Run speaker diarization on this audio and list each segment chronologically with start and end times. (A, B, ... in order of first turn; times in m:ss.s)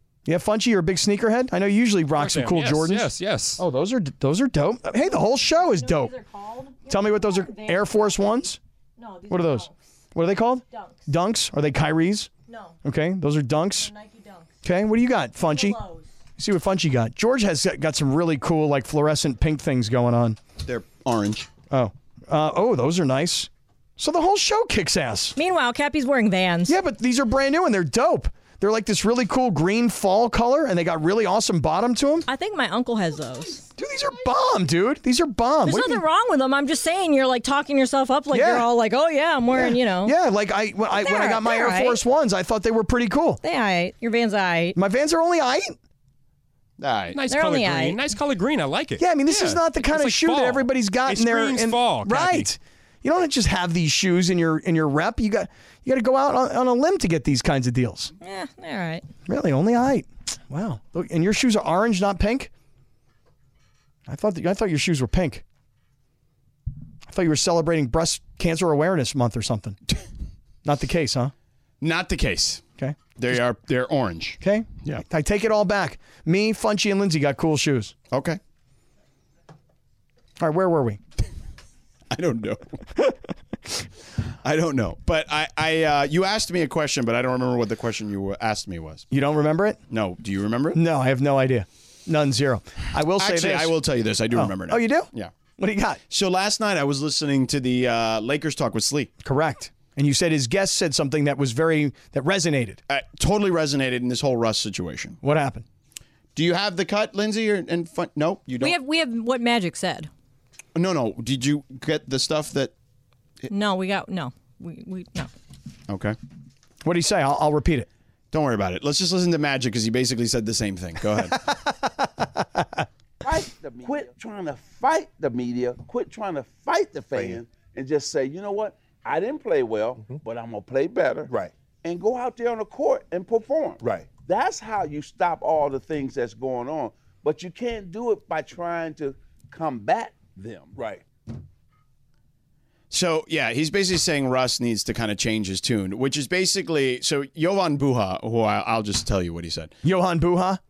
0:00.2-0:06.1 A
0:02.2-0:03.6 B
0:05.2-0:08.4 C
0:06.9-0:08.6 A
0:09.0-0:09.8 C
0:09.3-0:12.3 A
0:10.7-0:11.0 C
0:12.5-0:12.8 C
0:12.8-0:13.9 A
0:13.8-0:14.5 C
0:14.6-0:15.8 A
0:15.4-0:16.1 C
0:16.4-0:20.4 A
0:20.6-0:21.5 D
0:21.7-0:25.4 A
0:25.4-0:26.8 C
0:26.7-0:32.3 A
0:32.3-0:33.6 C
0:33.8-0:36.0 A
0:35.6-0:40.2 C
0:38.3-0:38.7 A
0:39.5-0:43.4 A
0:40.9-0:42.0 C
0:43.4-0:44.8 C
0:44.8-0:45.8 A
0:46.8-0:47.2 D
0:47.1-0:52.5 B
0:47.2-0:48.0 C
0:49.0-0:58.1 A
0:58.2-0:59.1 C
0:59.3-1:02.5 A
1:04.1-1:05.4 A
1:07.1-1:09.8 A
1:10.6-1:11.3 A
1:11.8-1:12.6 D
1:12.8-1:13.4 A
1:13.2-1:15.0 D
1:14.4-1:17.9 A
1:18.1-1:18.4 D
1:20.4-1:21.0 A
1:22.1-1:22.8 D
1:24.4-1:29.0 D
1:29.1-1:29.8 A
1:29.9-1:30.8 D
1:30.7-1:33.8 A
1:33.2-1:35.3 D
1:34.3-1:36.0 A
1:36.1-1:39.1 D
1:39.2-1:42.8 A
1:42.9-1:45.2 D
1:45.2-1:45.6 A
1:46.4-1:48.8 D
1:48.6-1:50.1 C
1:50.8-1:52.7 D
1:53.5-1:55.3 C
1:55.9-1:56.2 D
1:56.8-1:57.9 A
1:58.3-2:01.4 D
2:02.4-2:02.8 A
2:03.2-2:21.0 E
2:22.9-2:29.8 D
2:29.8-2:30.6 A